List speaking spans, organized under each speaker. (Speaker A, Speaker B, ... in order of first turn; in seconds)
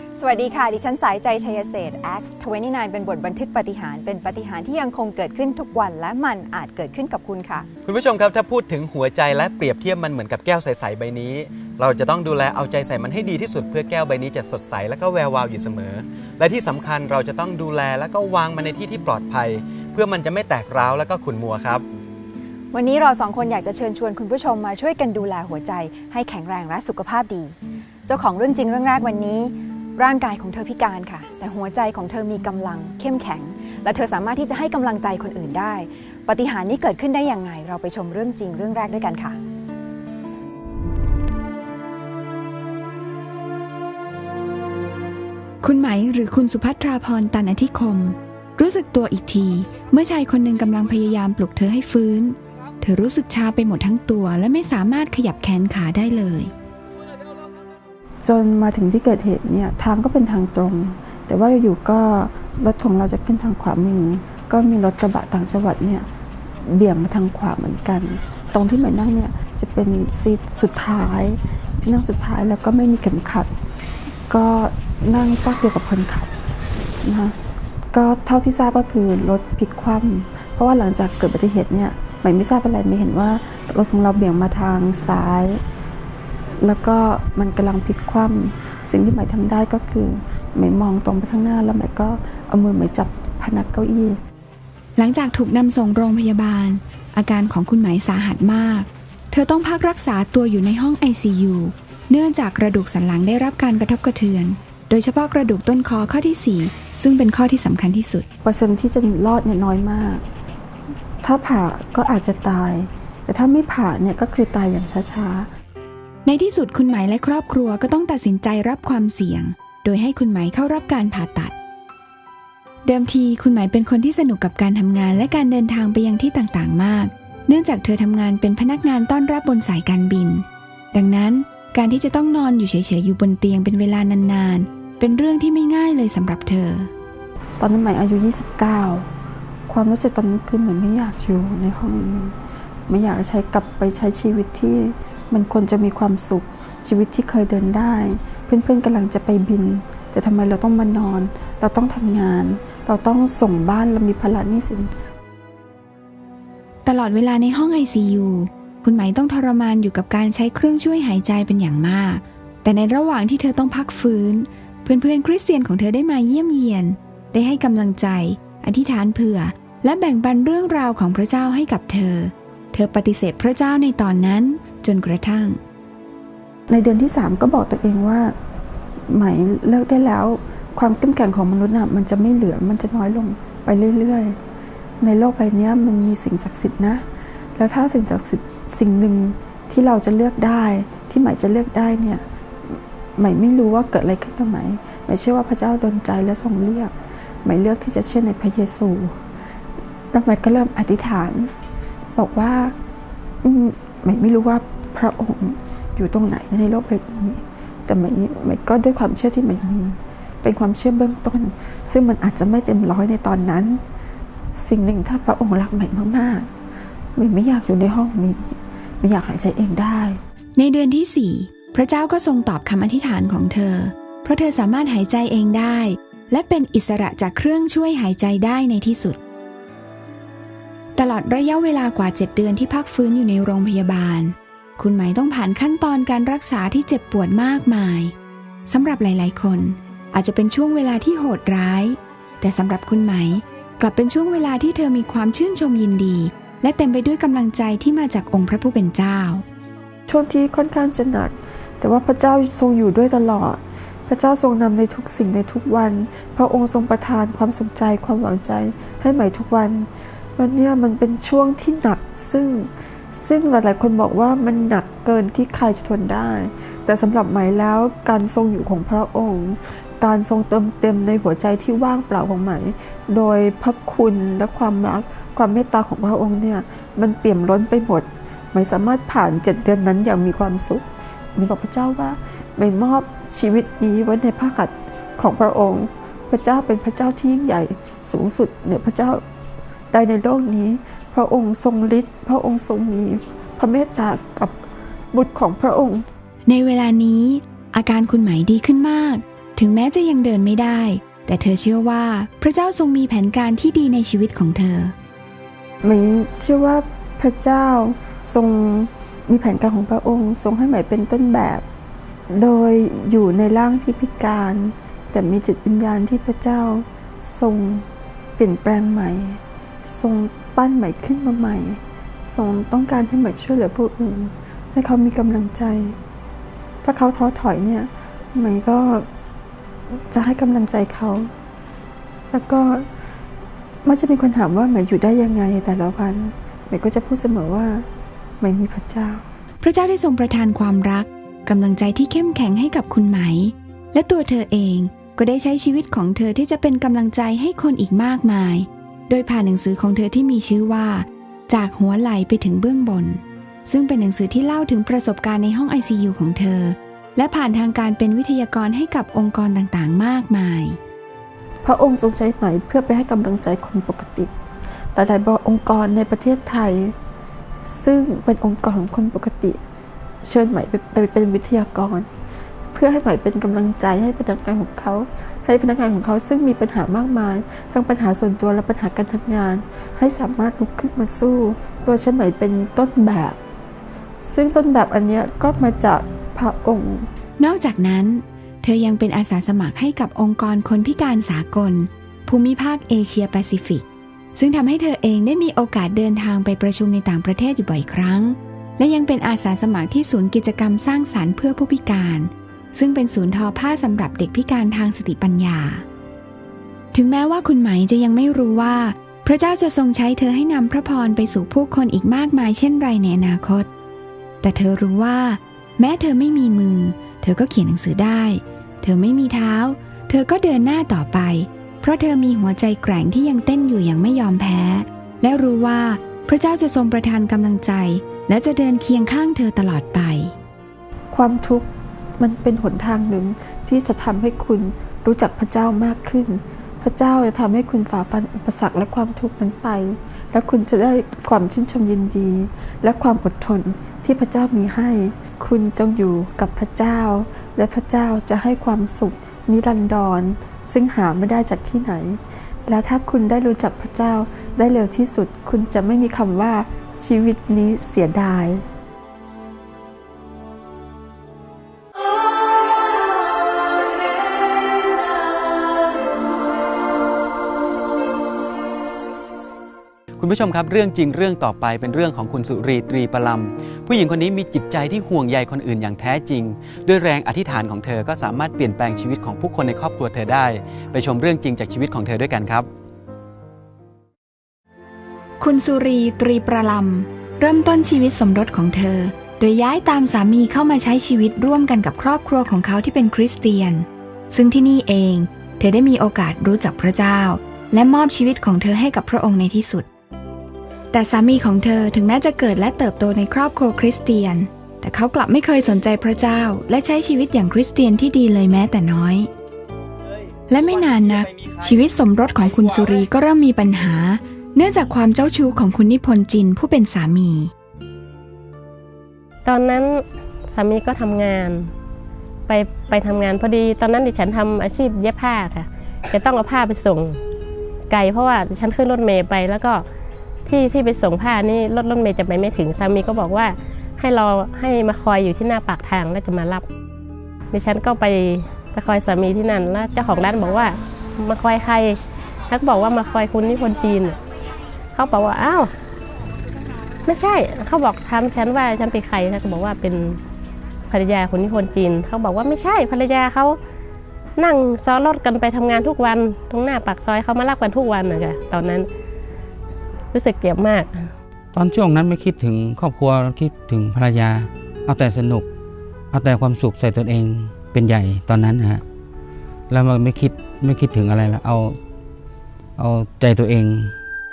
Speaker A: 0.2-7.7, 22.7-27.5, 28.1-39.4
Speaker B: 7.8-21.9, 470.2-482.7, 510.8-511.2
Speaker C: 45.6-56.5, 95.0-108.3, 116.2-121.5, 122.8-136.9, 156.8-175.6, 220.6-229.2, 230.9-238.1, 238.7-249.4, 296.4-304.9, 339.6-360.8, 387.4-405.8, 406.9-413.7, 414.4-430.3, 485.4-499.9, 500.9-509.3, 510.5-517.5
Speaker D: 58.2-66.1, 66.6-73.5, 74.3-76.3, 77.0-77.4, 77.9-85.6, 86.6-94.2, 108.4-110.2, 111.2-115.5, 137.6-139.1, 139.7-142.3, 142.9-154.9, 176.7-178.3, 179.1-184.4, 185.0-187.0, 187.6-199.2, 200.1-201.5, 202.2-202.7, 203.4-213.8, 214.5-216.5, 217.2-220.2, 250.1-289.2, 289.9-294.6, 295.1-296.1, 305.8-311.6, 312.3-317.9, 318.4-326.0, 326.8-329.1, 329.9-331.3, 332.3-332.9, 333.8-337.9, 338.4-339.2, 361.6-364.3, 364.9-366.9, 367.6-369.6, 370.2-372.1, 372.7-383.4, 384.2-387.1, 431.1-458.6
Speaker E: 519.5-521.7, 522.5-527.2, 527.9-529.8, 530.5-536.6, 537.5-542.0, 542.5-544.2, 544.9-545.7, 547.0-550.2, 550.9-553.6, 554.4-558.9, 560.1-561.1
Speaker F: 561.5-565.5, 566.1-568.8, 569.7-571.8, 572.8-573.9